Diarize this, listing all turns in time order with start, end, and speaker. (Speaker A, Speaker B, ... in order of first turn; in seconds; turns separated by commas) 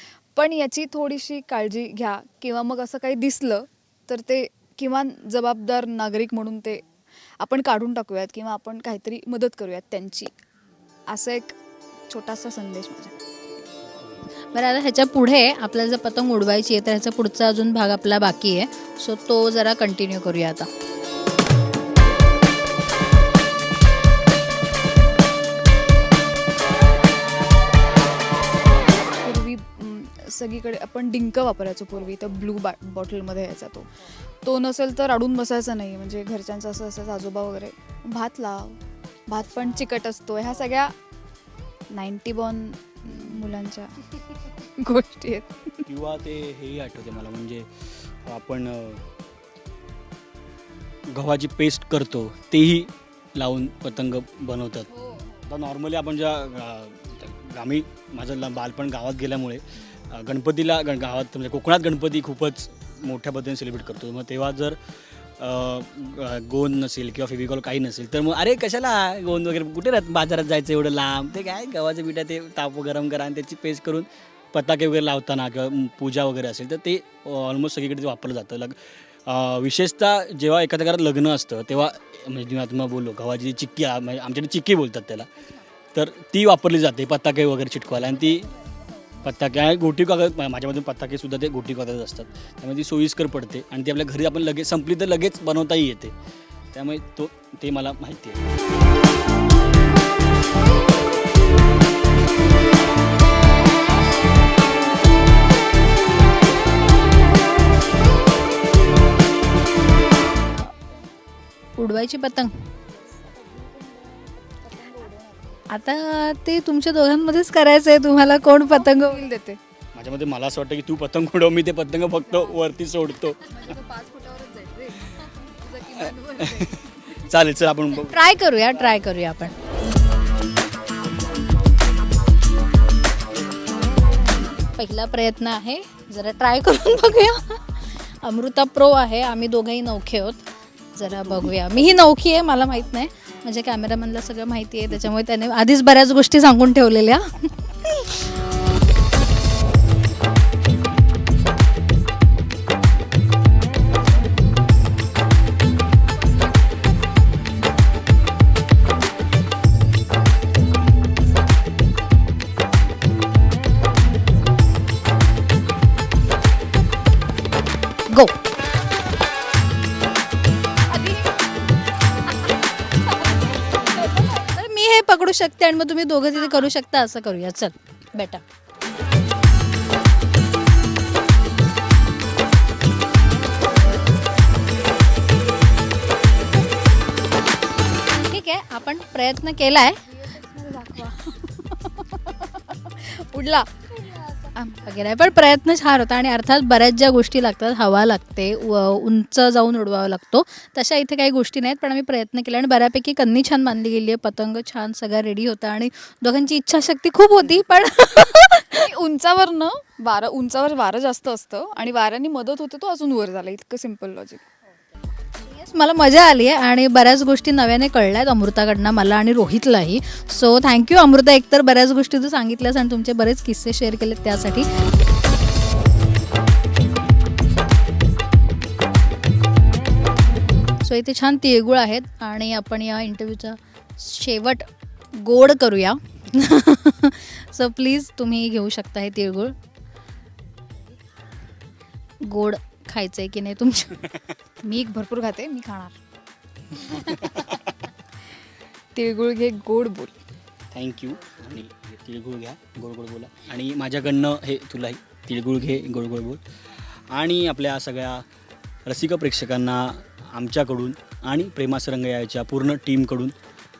Speaker A: 0.3-6.8, Speaker A: 7.4-10.3, Speaker A: 11.1-11.5, Speaker A: 12.1-13.2, Speaker B: 14.5-20.7, Speaker A: 29.2-41.0, Speaker A: 41.9-45.9, Speaker C: 45.9-49.0, Speaker C: 51.1-54.9, Speaker A: 55.0-55.4, Speaker C: 55.4-64.8, Speaker C: 65.4-85.3, Speaker C: 85.9-88.5, Speaker C: 89.2-96.1, Speaker C: 96.7-98.4, Speaker B: 110.5-110.8, Speaker B: 111.8-112.7, Speaker A: 112.9-115.7, Speaker B: 115.7-119.3, Speaker A: 118.7-119.6, Speaker C: 119.9-123.4, Speaker A: 123.4-127.0, Speaker C: 126.4-128.3, Speaker B: 128.0-129.5, Speaker B: 134.6-148.2, Speaker C: 141.0-141.8, Speaker B: 168.1-168.3, Speaker B: 173.9-178.4, Speaker B: 188.2-190.0, Speaker A: 190.1-194.8, Speaker B: 194.8-208.9, Speaker A: 208.7-214.4, Speaker B: 215.3-224.7, Speaker B: 230.8-239.5, Speaker B: 242.2-244.0, Speaker A: 244.6-246.0, Speaker C: 246.8-247.5, Speaker A: 247.1-247.4, Speaker A: 248.9-250.2, Speaker C: 250.7-256.4, Speaker C: 257.1-258.2, Speaker C: 258.9-263.3